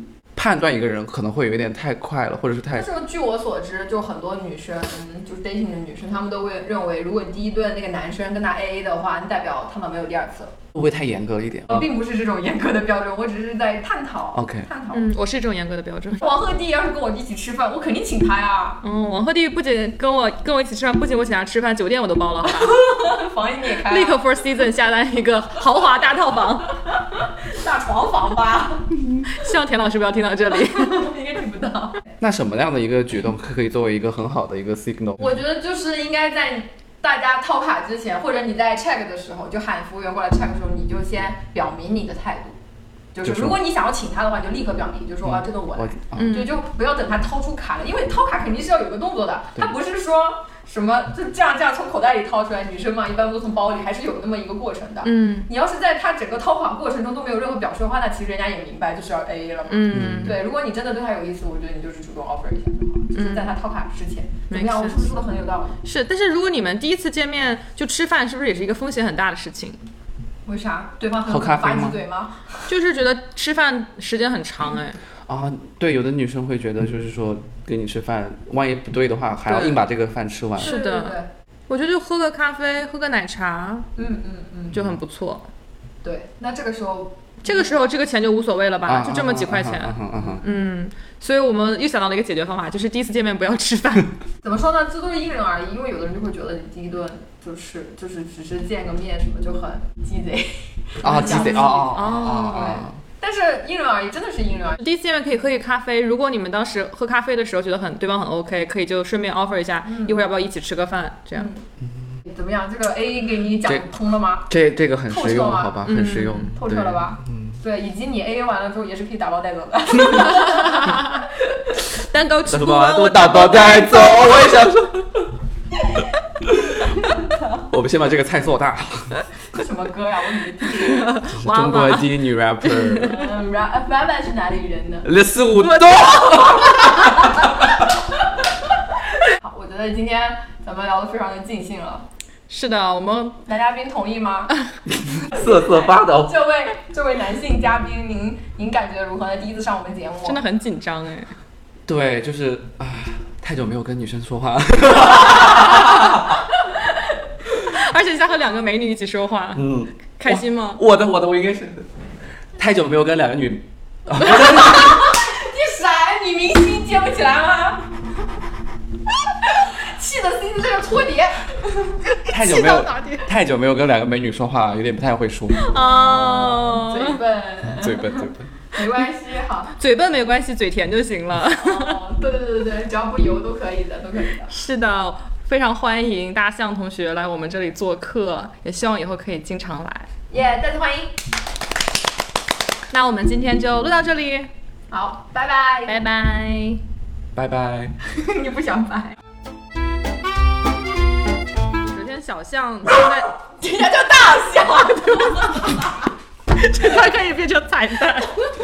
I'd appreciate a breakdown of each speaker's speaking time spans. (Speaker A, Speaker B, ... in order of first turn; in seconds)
Speaker A: 0.3-2.9, 10.7-11.9, 14.3-14.7, 32.2-35.4, 43.2-43.6, 45.2-46.4, 59.9-60.4, 71.3-72.0, 75.3-80.7, 88.8-90.4, 101.0-103.0, 114.5-117.6, 122.5-125.3, 126.5-127.0, 127.7-129.2, 131.2-133.3, 135.0-137.9, 144.9-146.3, 151.9-156.4, 159.5-161.9, 162.6-165.1, 172.3-175.7, 177.7-178.5, 197.3-198.0
Speaker B: 2.7-10.6, 11.7-15.1, 16.2-18.8, 22.4-24.3, 26.9-28.9, 30.6-32.0, 35.2-42.6, 43.1-65.8, 70.5-72.7, 80.6-81.3, 84.0-85.0, 86.0-87.6, 90.2-90.5, 94.4-104.8, 109.9-110.3, 111.3-111.6, 112.2-114.5, 115.1-115.9, 116.5-121.3, 127.1-127.4, 129.5-131.1, 133.0-135.1, 139.2-142.1, 143.5-144.5, 145.2-150.4, 164.2-167.9, 169.4-172.1, 175.7-179.7, 181.5-184.5, 190.3-191.1, 194.9-196.0, 198.1-199.2, 203.4-206.0
Speaker C: 14.9-16.3, 18.8-22.8, 23.9-26.8, 29.2-31.1, 46.2-46.6, 55.0-55.5, 59.7-60.4, 63.1-63.6, 64.5-65.1, 65.8-69.8, 72.7-75.0, 79.5-79.8, 80.6-81.2, 81.7-83.9, 84.7-85.5, 87.4-94.2, 101.2-102.8, 104.8-111.5, 115.8-116.5, 120.2-121.2, 121.9-124.7, 130.9-133.3, 142.5-143.4, 150.2-151.3, 157.5-160.8, 172.4-173.2, 175.6-177.2, 179.8-182.0, 184.4-190.1, 192.9-194.5, 195.9-196.8, 201.9-203.3, 205.3-205.6, 206.5-208.4